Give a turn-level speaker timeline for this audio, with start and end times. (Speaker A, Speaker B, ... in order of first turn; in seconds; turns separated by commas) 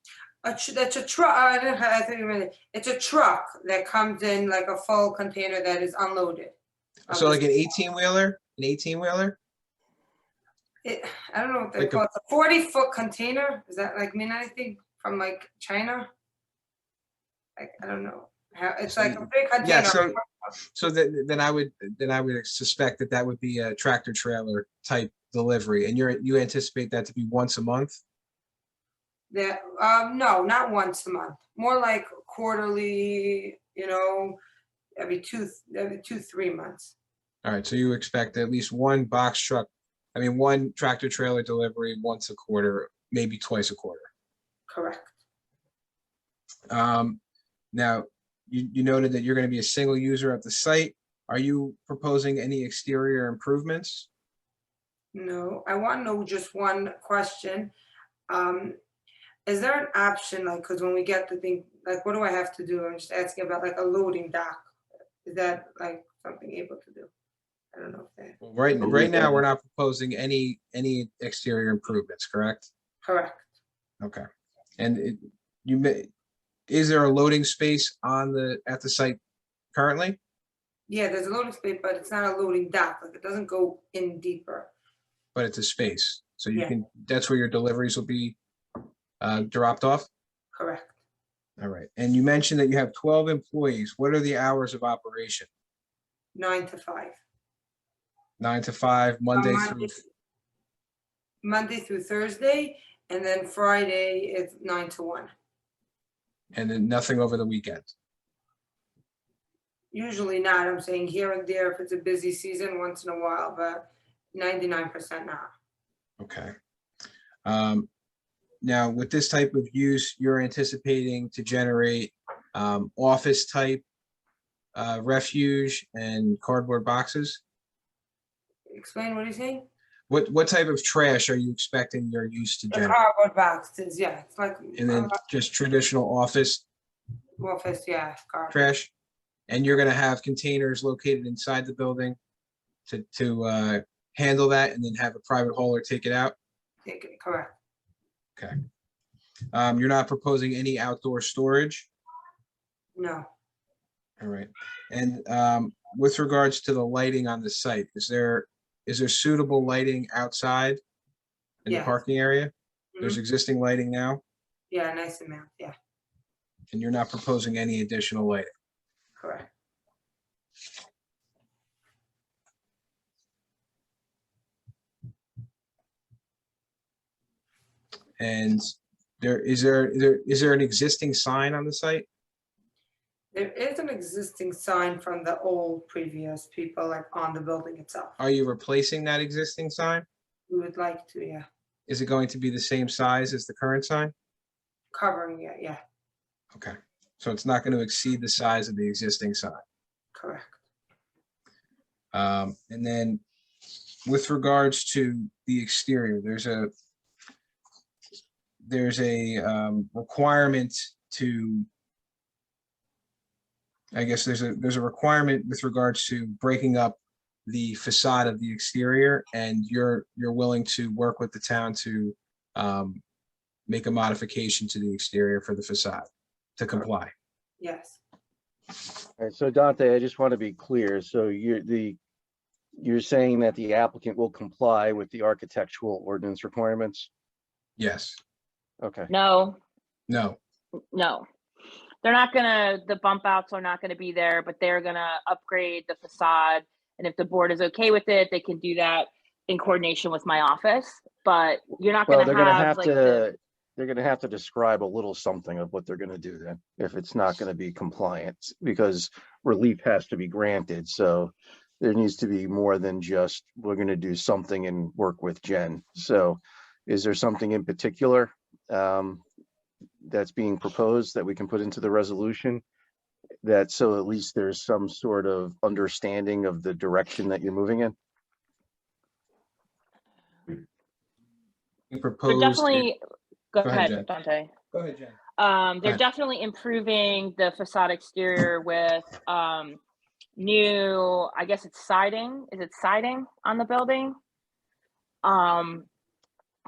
Speaker A: 0.4-6.5, Speaker A: 7.1-7.4, Speaker B: 7.1-9.4, Speaker A: 10.8-16.1, Speaker B: 11.8-12.0, Speaker A: 17.6-20.3, Speaker B: 18.9-20.1, Speaker B: 20.7-28.0, Speaker A: 29.3-34.4, Speaker A: 35.0-36.9, Speaker B: 37.4-44.1, Speaker A: 44.7-45.1, Speaker B: 46.7-47.2, Speaker B: 47.7-54.1, Speaker A: 55.1-57.7, Speaker A: 58.3-58.8, Speaker A: 59.5-64.7, Speaker A: 65.2-67.1, Speaker A: 67.7-68.4, Speaker B: 68.4-72.7, Speaker A: 73.0-73.5, Speaker B: 74.8-76.1, Speaker B: 76.7-79.2, Speaker B: 79.7-80.2, Speaker A: 80.9-84.7, Speaker B: 85.3-88.3, Speaker B: 89.2-90.1, Speaker A: 90.5-91.0, Speaker B: 91.6-95.5, Speaker A: 96.3-97.2, Speaker B: 98.4-99.9, Speaker A: 99.3-100.0, Speaker A: 101.4-105.3, Speaker B: 106.5-107.9, Speaker A: 109.9-115.5, Speaker B: 116.2-116.5, Speaker B: 117.4-117.9, Speaker B: 118.6-123.8, Speaker B: 124.7-127.4, Speaker A: 128.7-129.7, Speaker B: 130.1-133.0, Speaker A: 132.7-135.2, Speaker B: 134.7-136.6, Speaker A: 137.4-138.7, Speaker B: 138.5-138.9, Speaker B: 139.5-142.2, Speaker B: 142.8-146.3, Speaker A: 146.8-147.6, Speaker B: 149.5-151.9, Speaker A: 152.9-153.3, Speaker B: 154.2-160.8, Speaker B: 161.6-164.2, Speaker A: 161.7-161.9, Speaker A: 164.7-165.8, Speaker B: 166.7-168.5, Speaker A: 169.2-169.5, Speaker B: 178.2-182.1, Speaker A: 183.3-188.2, Speaker B: 188.2-190.1, Speaker A: 190.5-191.5, Speaker B: 191.9-194.1, Speaker A: 194.9-195.8, Speaker B: 196.5-199.6, Speaker A: 200.1-200.6, Speaker B: 202.1-203.2, Speaker B: 204.1-206.7, Speaker B: 208.6-211.7, Speaker B: 213.9-223.0, Speaker B: 223.7-226.1, Speaker B: 226.6-227.1, Speaker A: 227.6-228.0, Speaker C: 229.2-231.9, Speaker C: 232.8-237.1, Speaker B: 237.8-238.2, Speaker D: 239.1-239.6, Speaker B: 240.1-240.4, Speaker D: 240.9-241.2, Speaker D: 242.0-253.2, Speaker C: 252.1-269.2, Speaker C: 270.0-272.6, Speaker C: 273.4-277.9, Speaker B: 281.9-282.9, Speaker D: 282.3-283.0, Speaker D: 283.5-284.5, Speaker B: 283.6-284.1, Speaker B: 284.7-285.2, Speaker D: 285.4-289.8, Speaker D: 290.4-294.1, Speaker D: 295.2-295.9